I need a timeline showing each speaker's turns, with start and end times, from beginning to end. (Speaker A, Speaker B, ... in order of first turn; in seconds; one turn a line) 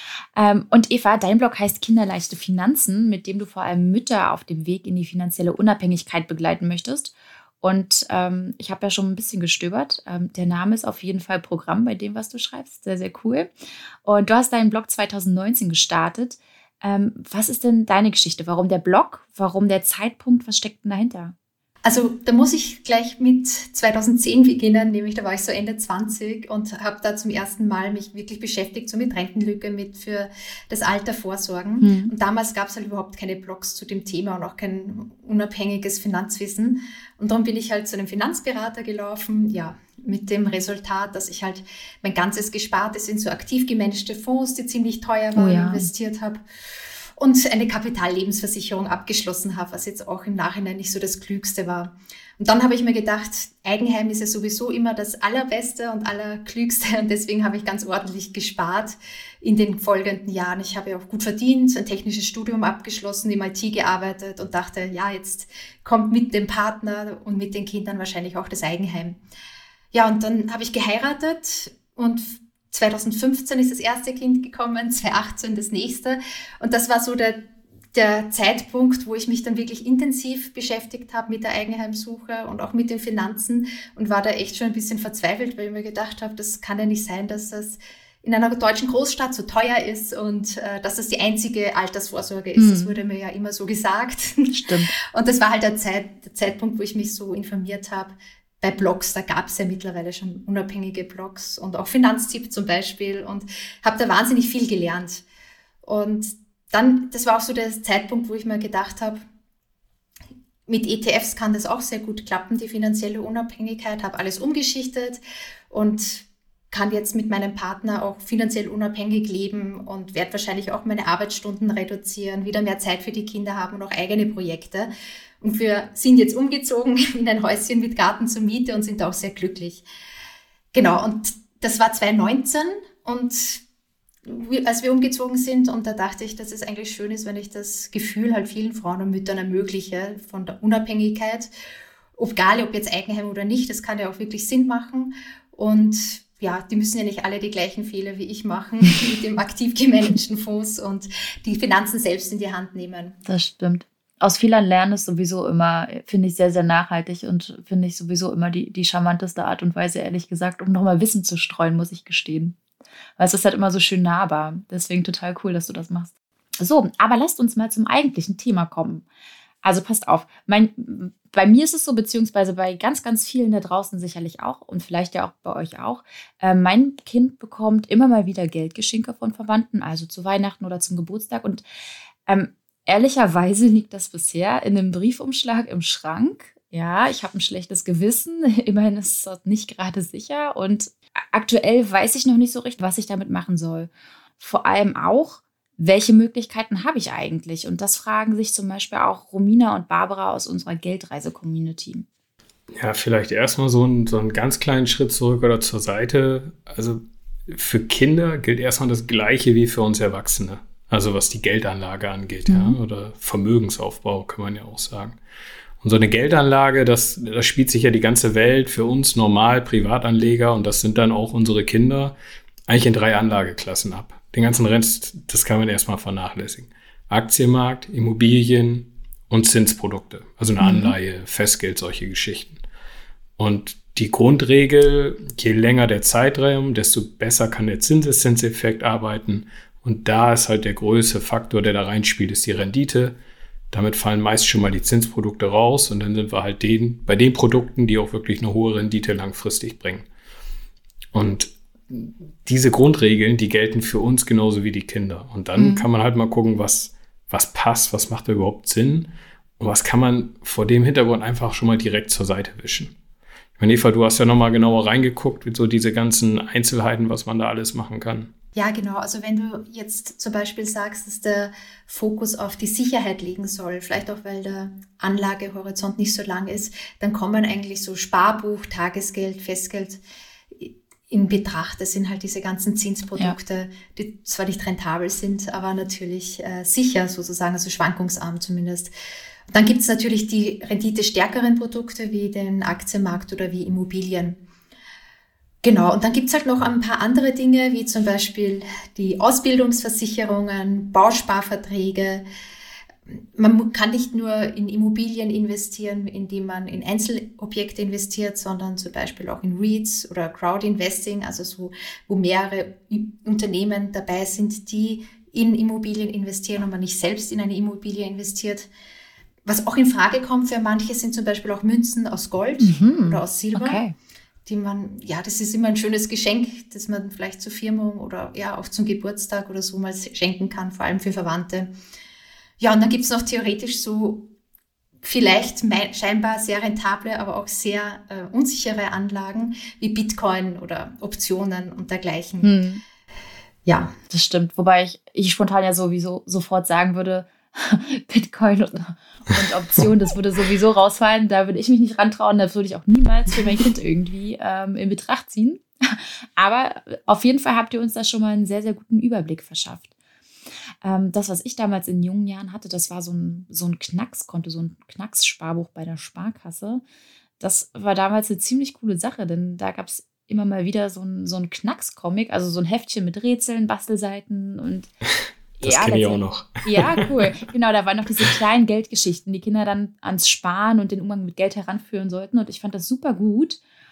Speaker A: 0.4-13.5
Speaker A: 14.0-21.3
Speaker B: 21.9-46.4
Speaker A: 31.8-32.1
Speaker A: 45.4-45.9
Speaker B: 47.2-69.2
Speaker B: 69.9-105.2
Speaker A: 92.6-93.0
Speaker A: 94.5-94.9
Speaker B: 105.8-109.2
Speaker B: 110.7-124.9
Speaker B: 125.4-129.8
Speaker B: 130.7-133.6
Speaker B: 134.3-141.5
Speaker B: 142.2-153.2
Speaker A: 153.3-162.6
Speaker A: 163.2-169.1
Speaker A: 169.6-181.6
Speaker A: 182.3-202.1
Speaker C: 202.7-215.2
Speaker A: 212.5-212.8
Speaker C: 215.8-222.2
Speaker C: 222.7-232.6
Speaker A: 230.6-230.9
Speaker C: 233.4-243.2
Speaker C: 243.7-250.1
Speaker C: 251.1-262.9
Speaker A: 255.6-255.8
Speaker C: 263.6-268.3
Speaker B: 268.6-280.0
Speaker B: 280.5-288.9
Speaker B: 289.5-294.4
Speaker B: 295.6-302.2
Speaker B: 303.1-318.7
Speaker B: 319.4-323.8
Speaker A: 322.6-323.9
Speaker B: 324.5-331.7
Speaker B: 332.6-334.3
Speaker B: 335.0-342.6
Speaker A: 342.4-342.8
Speaker B: 343.6-343.9
Speaker A: 344.1-359.9
Speaker A: 360.8-366.8
Speaker A: 367.4-374.9
Speaker A: 375.6-383.6
Speaker C: 375.6-377.1